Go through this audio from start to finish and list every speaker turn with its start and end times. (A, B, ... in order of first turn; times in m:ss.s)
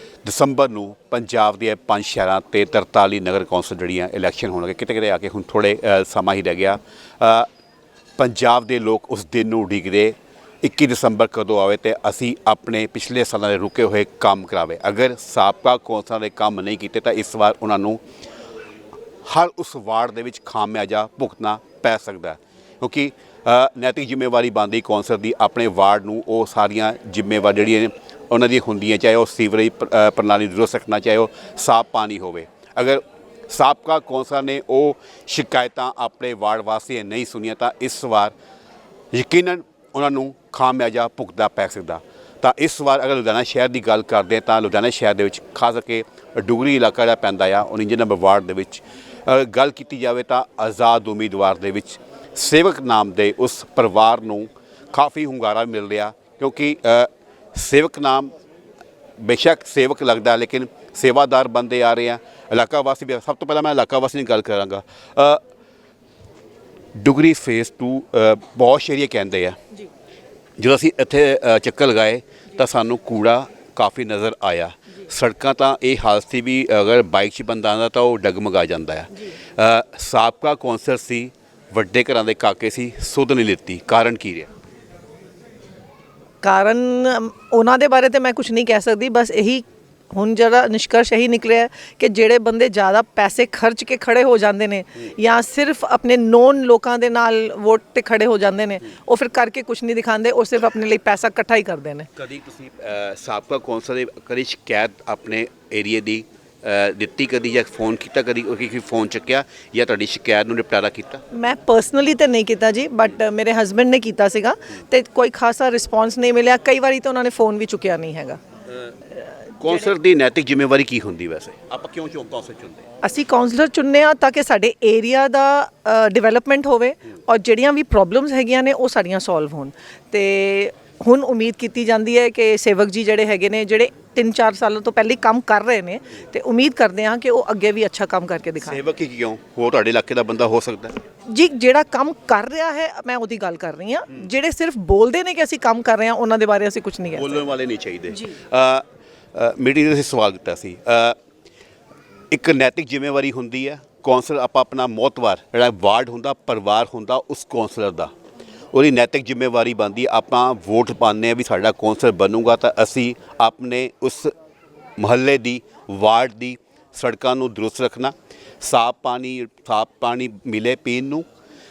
0:00.2-0:07.5 A
0:08.2-0:18.0 A
0:19.3-0:38.3 A
0:39.1-0:58.3 A
0:59.2-1:05.4 A
1:07.0-1:09.6 A
1:10.6-1:24.5 A
1:26.4-1:42.1 B
1:42.2-1:51.2 A
1:51.3-1:58.4 B
1:59.2-1:59.9 B
1:59.6-2:02.9 A
2:03.0-2:18.8 B
2:18.6-2:21.0 A
2:21.3-2:27.4 B
2:27.2-2:31.2 A
2:32.3-2:38.1 A
2:38.7-2:44.3 A
2:45.0-2:51.2 A